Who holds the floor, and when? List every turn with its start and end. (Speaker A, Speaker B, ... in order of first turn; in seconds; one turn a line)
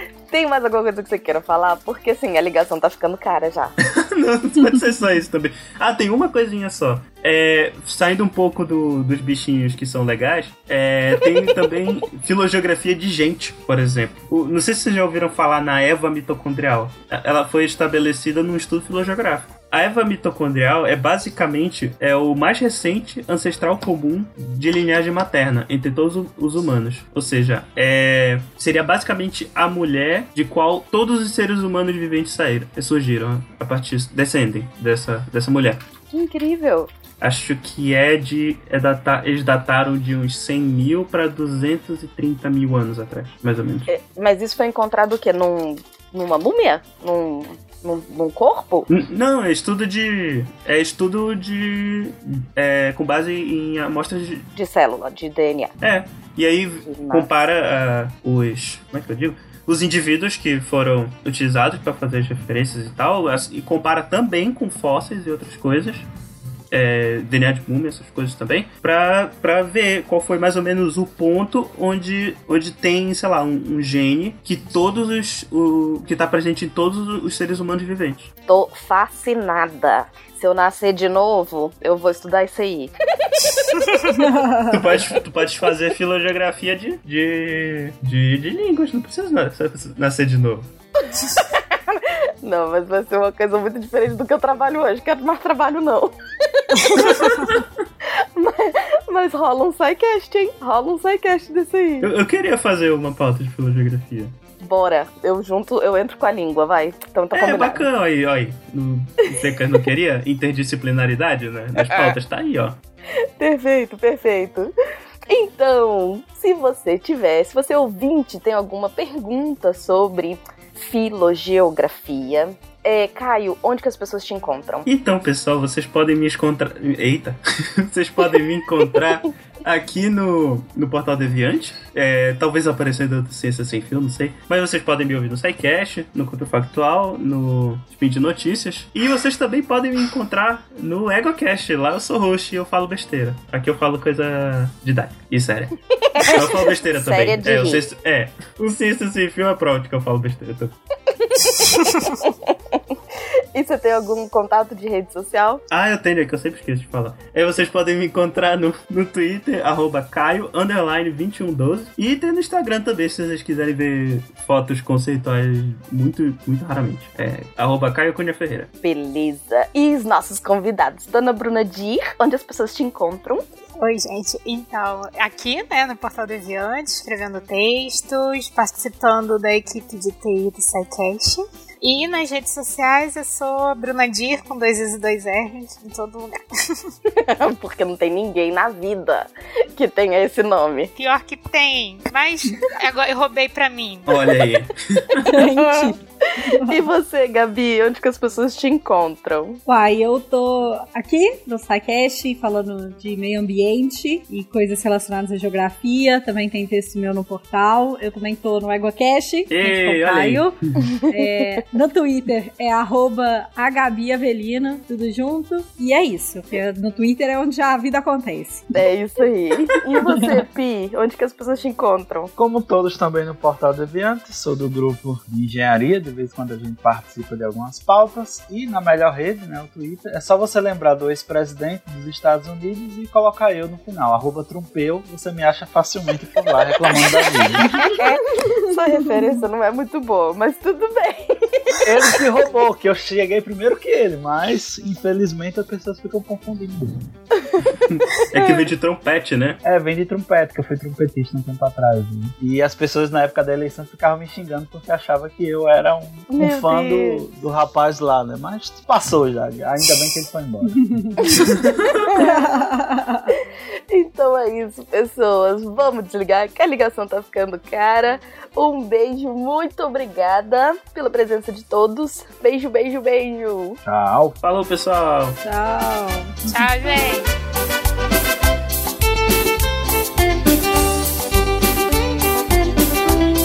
Speaker A: 0.3-3.7
Speaker B: 3.9-35.8
Speaker A: 36.1-36.9
Speaker B: 37.2-43.9
Speaker A: 43.9-48.9
Speaker B: 48.9-54.5
Speaker A: 54.6-55.7
Speaker B: 55.8-66.1
Speaker A: 56.9-57.3
Speaker B: 66.7-78.3
Speaker A: 78.5-82.9
Speaker C: 84.2-84.7
Speaker B: 84.7-90.7
Speaker A: 91.2-97.6
Speaker A: 98.4-102.1
Speaker B: 102.0-104.3
Speaker A: 104.6-107.8
Speaker B: 107.3-112.8
Speaker A: 111.8-112.1
Speaker A: 113.4-114.7
Speaker A: 115.3-124.9
Speaker B: 124.8-150.7
Speaker A: 146.1-147.8
Speaker A: 151.1-152.8
Speaker A: 153.5-155.6
Speaker B: 155.7-168.7
Speaker A: 168.8-173.4
Speaker D: 173.8-186.9
Speaker A: 187.1-190.9
Speaker D: 191.0-194.1
Speaker B: 194.1-195.3
Speaker C: 195.2-196.0
Speaker A: 195.6-195.9
Speaker C: 196.5-196.8
Speaker A: 196.7-199.6
Speaker C: 199.7-210.6
Speaker B: 209.5-210.5
Speaker A: 210.8-211.4
Speaker C: 211.1-218.7
Speaker A: 218.7-222.3
Speaker E: 222.4-237.8
Speaker A: 237.7-241.8
Speaker E: 241.8-247.0
Speaker B: 247.7-249.6
Speaker E: 249.6-260.9
Speaker A: 256.3-257.2
Speaker C: 260.9-261.3
Speaker A: 262.0-262.6
Speaker C: 262.1-263.3
Speaker A: 263.9-273.8
Speaker E: 273.8-274.4
Speaker B: 274.4-275.4
Speaker C: 275.4-276.3
Speaker D: 276.5-277.3